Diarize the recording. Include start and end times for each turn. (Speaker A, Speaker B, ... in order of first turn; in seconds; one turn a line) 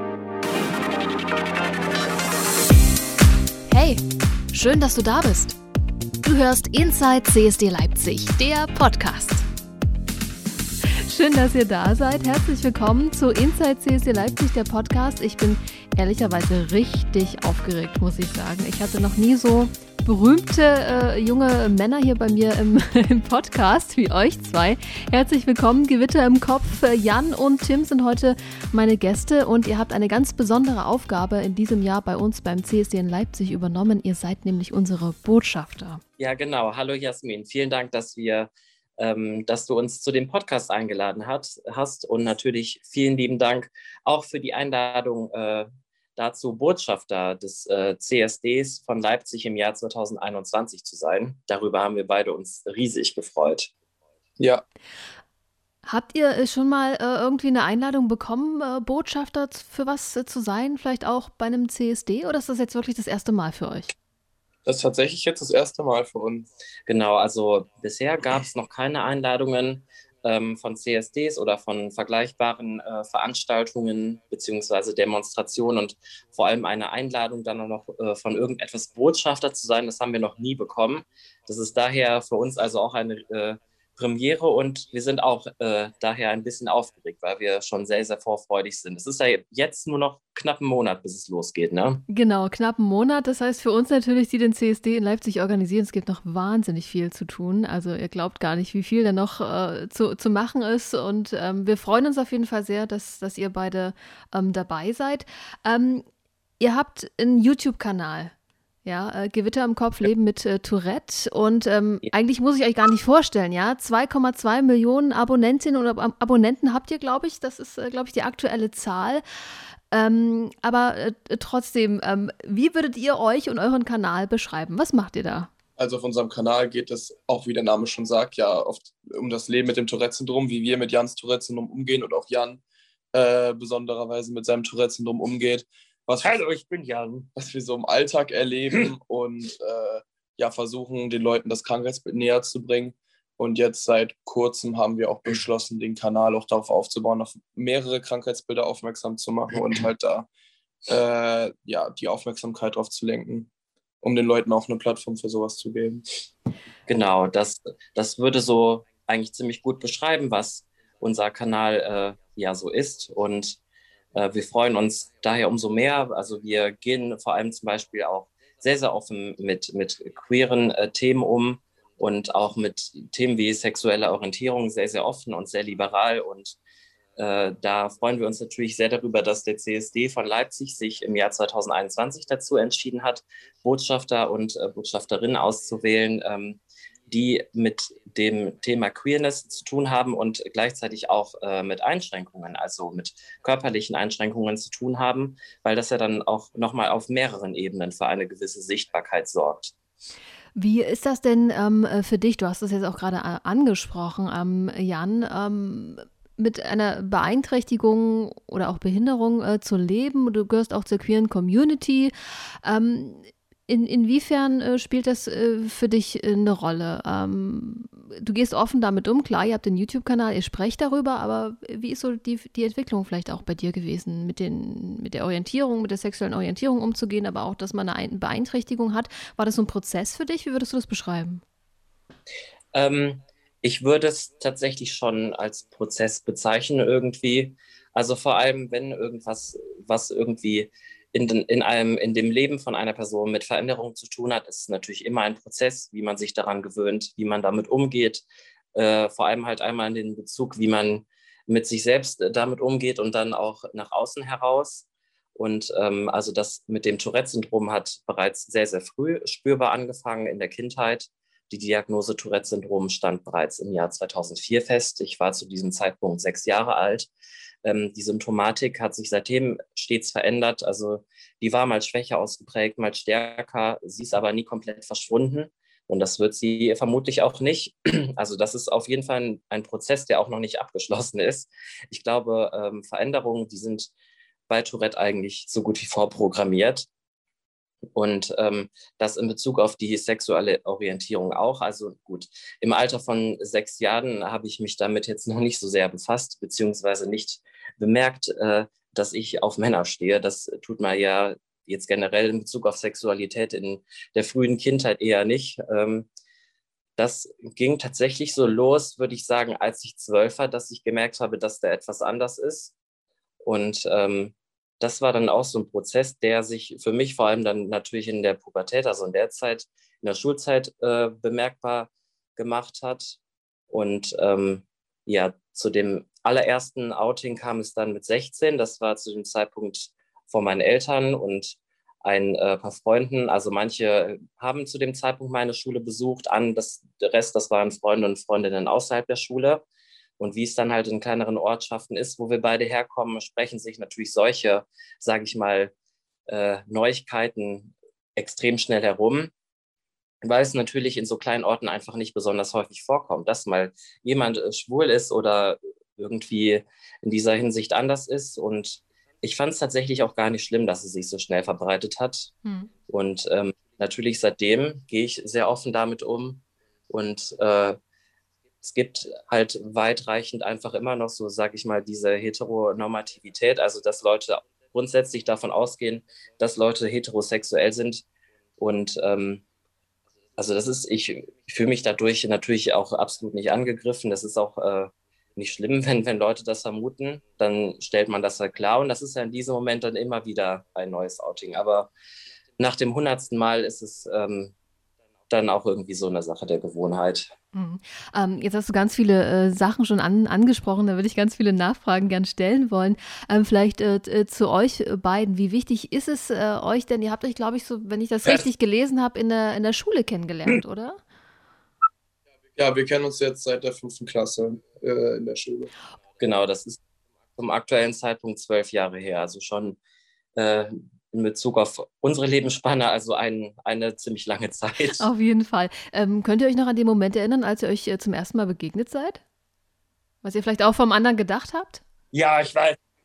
Speaker A: 3.7-4.0
Speaker A: 4.5-5.6
Speaker A: 6.2-9.5
Speaker A: 10.9-36.0
Speaker B: 36.2-53.7
Speaker C: 54.4-54.6
Speaker A: 55.9-63.9
Speaker C: 64.7-66.5
Speaker B: 66.9-92.0
Speaker A: 92.1-106.1
Speaker A: 106.6-108.3
Speaker A: 108.8-119.2
Speaker A: 119.9-125.5
Speaker C: 125.8-132.6
Speaker C: 133.1-136.4
Speaker B: 136.2-137.3
Speaker C: 137.4-150.3
Speaker C: 150.9-153.5
Speaker C: 154.0-156.1
Speaker B: 156.9-163.6
Speaker B: 164.1-176.6
Speaker B: 177.2-199.7
Speaker A: 200.6-212.1
Speaker A: 212.6-231.4
Speaker B: 232.7-267.1
Speaker B: 267.6-283.9
Speaker B: 284.5-286.9
Speaker B: 287.9-306.1
Speaker B: 307.0-312.8
Speaker B: 313.4-323.2
Speaker B: 323.7-339.6
Speaker B: 340.2-345.7
Speaker B: 346.3-349.3
Speaker B: 350.2-362.3
Speaker A: 362.4-362.7
Speaker B: 362.9-367.8
Speaker B: 368.6-378.1
Speaker B: 378.6-379.4
Speaker B: 380.4-391.9
Speaker B: 392.6-394.6
Speaker B: 395.3-397.3
Speaker A: 397.5-411.0
Speaker C: 412.6-415.7
Speaker B: 416.2-416.8
Speaker B: 417.4-419.8
Speaker B: 420.4-425.1
Speaker A: 425.0-429.2
Speaker A: 430.2-431.8
Speaker B: 432.1-432.8